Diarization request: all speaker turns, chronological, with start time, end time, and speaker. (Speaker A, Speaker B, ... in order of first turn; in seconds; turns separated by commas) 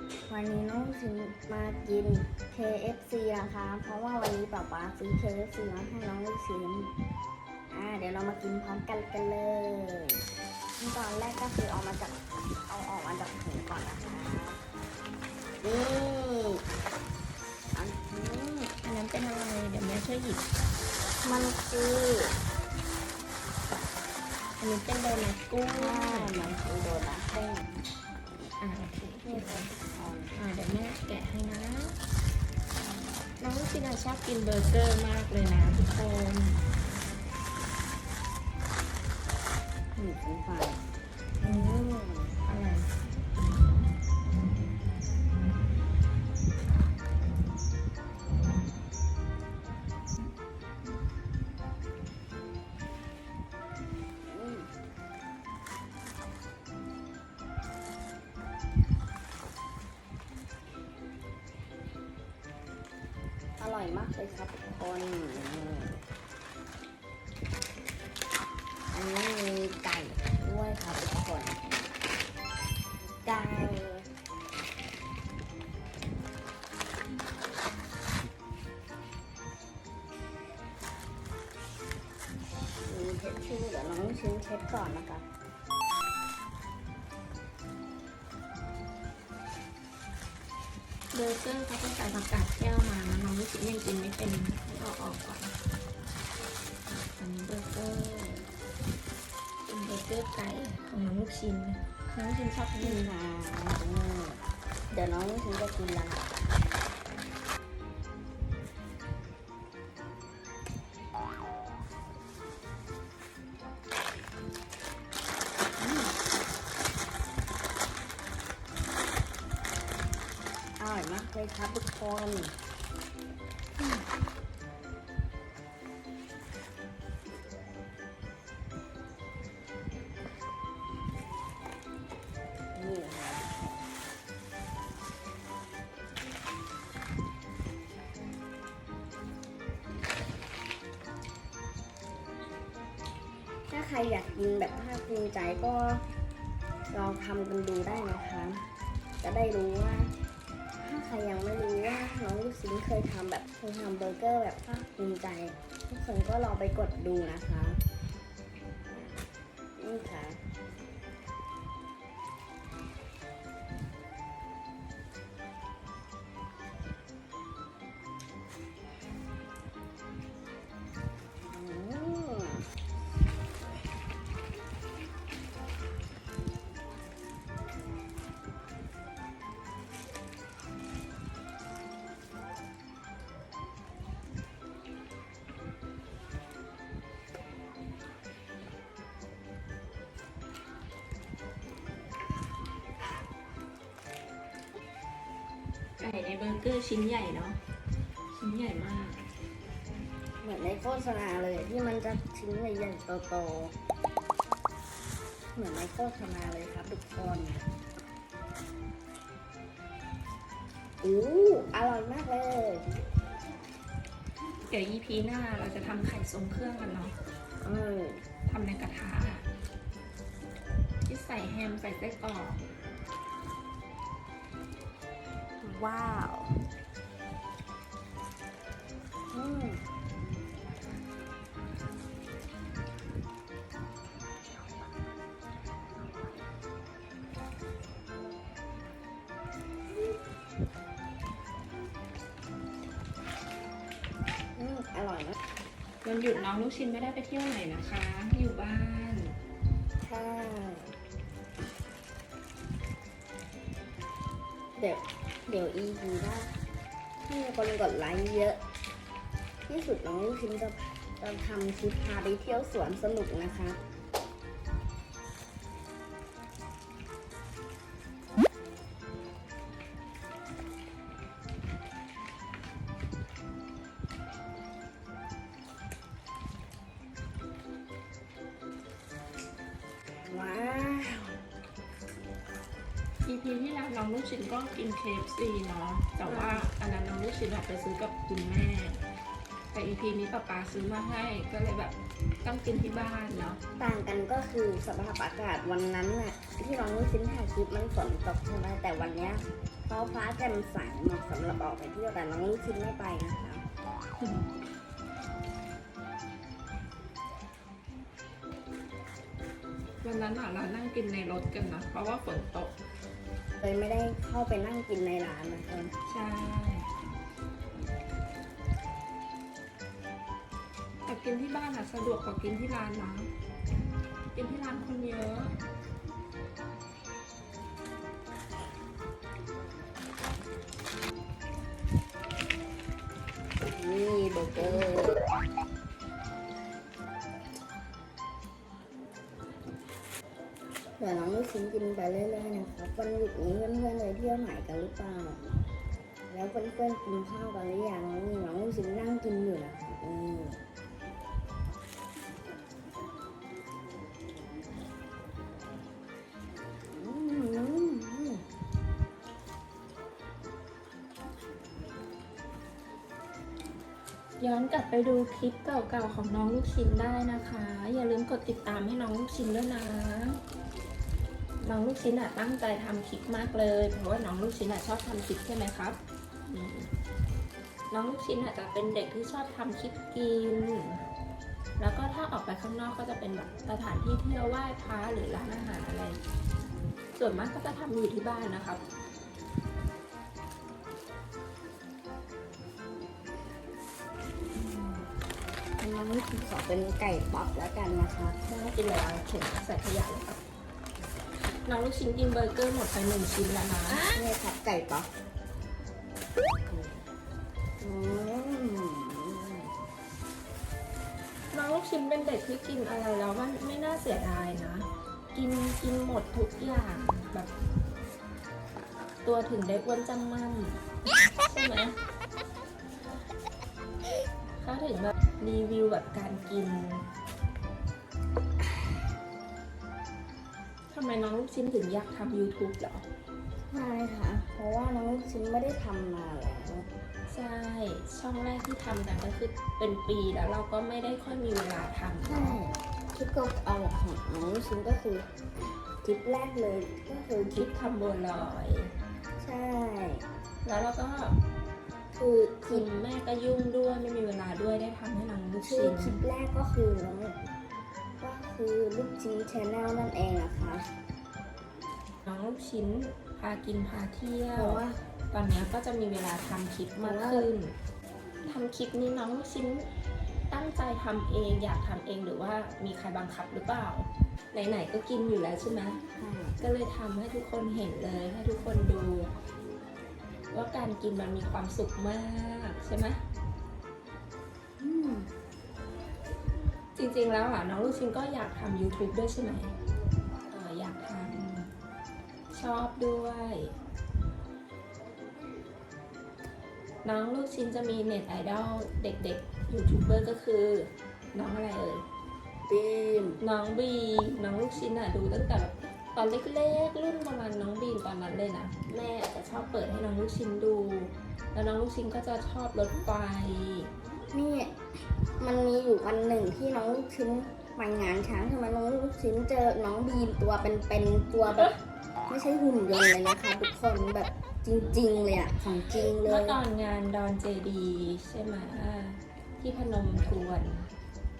Speaker A: 0.3-6.9, Speaker A: 7.7-10.2, Speaker A: 10.8-14.6, Speaker A: 15.6-16.6, Speaker A: 17.7-18.8, Speaker B: 18.8-20.4, Speaker A: 21.2-22.4, Speaker B: 24.6-26.6, Speaker A: 25.7-27.8, Speaker B: 28.6-29.7, Speaker A: 29.2-30.4, Speaker B: 30.4-32.0, Speaker B: 33.4-36.6, Speaker A: 40.0-40.8, Speaker A: 41.4-42.4, Speaker B: 41.4-41.8, Speaker B: 42.5-42.9, Speaker A: 54.3-54.7, Speaker A: 63.6-66.0, Speaker A: 68.9-71.6, Speaker A: 73.0-74.1, Speaker A: 82.9-85.2, Speaker B: 91.1-95.5, Speaker B: 97.2-98.4, Speaker B: 99.7-103.1, Speaker A: 102.8-106.2, Speaker A: 115.8-116.2, Speaker A: 120.8-122.5, Speaker A: 123.8-124.0, Speaker A: 132.8-133.7, Speaker A: 143.7-146.0, Speaker A: 146.9-148.7, Speaker A: 149.2-150.1, Speaker A: 150.8-157.8, Speaker A: 159.8-160.4, Speaker A: 171.4-172.7, Speaker B: 196.0-197.6, Speaker B: 198.3-199.2, Speaker A: 200.4-203.8, Speaker A: 205.6-207.7, Speaker A: 211.0-212.9, Speaker B: 214.7-217.2, Speaker A: 217.6-218.2, Speaker B: 218.5-219.5, Speaker B: 221.1-222.6, Speaker B: 225.6-226.4, Speaker A: 229.3-229.8, Speaker A: 244.6-245.3, Speaker B: 246.0-249.4, Speaker A: 250.0-250.9, Speaker A: 254.8-256.5, Speaker A: 257.3-258.6, Speaker A: 259.7-263.8, Speaker A: 280.3-281.4, Speaker B: 283.2-289.0, Speaker A: 286.3-286.6, Speaker B: 289.7-293.6, Speaker A: 293.8-303.6, Speaker B: 310.0-312.8, Speaker A: 313.6-315.9, Speaker B: 316.1-316.9, Speaker B: 321.1-323.3, Speaker B: 324.3-325.5, Speaker A: 333.7-335.2, Speaker A: 341.0-345.4, Speaker A: 346.3-350.6, Speaker A: 356.9-358.4, Speaker B: 364.4-370.4, Speaker B: 371.6-376.9, Speaker B: 377.9-381.0, Speaker B: 381.8-386.2, Speaker B: 387.2-388.8, Speaker A: 394.6-395.1, Speaker A: 395.8-398.4, Speaker B: 398.4-400.4, Speaker B: 401.6-404.1, Speaker A: 404.0-405.1, Speaker A: 406.7-407.0, Speaker A: 407.8-409.7, Speaker B: 411.5-417.5, Speaker B: 419.2-420.8, Speaker B: 421.4-422.0, Speaker B: 424.6-427.1, Speaker B: 430.9-433.1, Speaker A: 433.7-436.9, Speaker B: 437.3-442.6, Speaker A: 442.2-445.3, Speaker A: 446.0-447.7, Speaker B: 447.5-448.9, Speaker A: 449.4-450.2, Speaker B: 450.6-451.4, Speaker A: 452.1-452.9, Speaker B: 452.6-456.2, Speaker A: 455.6-457.4, Speaker A: 458.2-460.9, Speaker B: 462.3-467.7, Speaker A: 464.6-465.0, Speaker A: 467.0-467.5, Speaker B: 468.5-469.9, Speaker B: 470.5-476.0, Speaker A: 476.2-476.6, Speaker B: 476.6-479.3, Speaker B: 480.5-483.2, Speaker A: 484.8-485.3, Speaker B: 487.0-489.7, Speaker B: 490.5-491.7, Speaker B: 492.5-493.7, Speaker B: 497.0-502.1, Speaker A: 502.7-503.4, Speaker B: 503.4-513.9, Speaker A: 514.3-521.7, Speaker A: 522.3-526.6, Speaker B: 526.2-530.9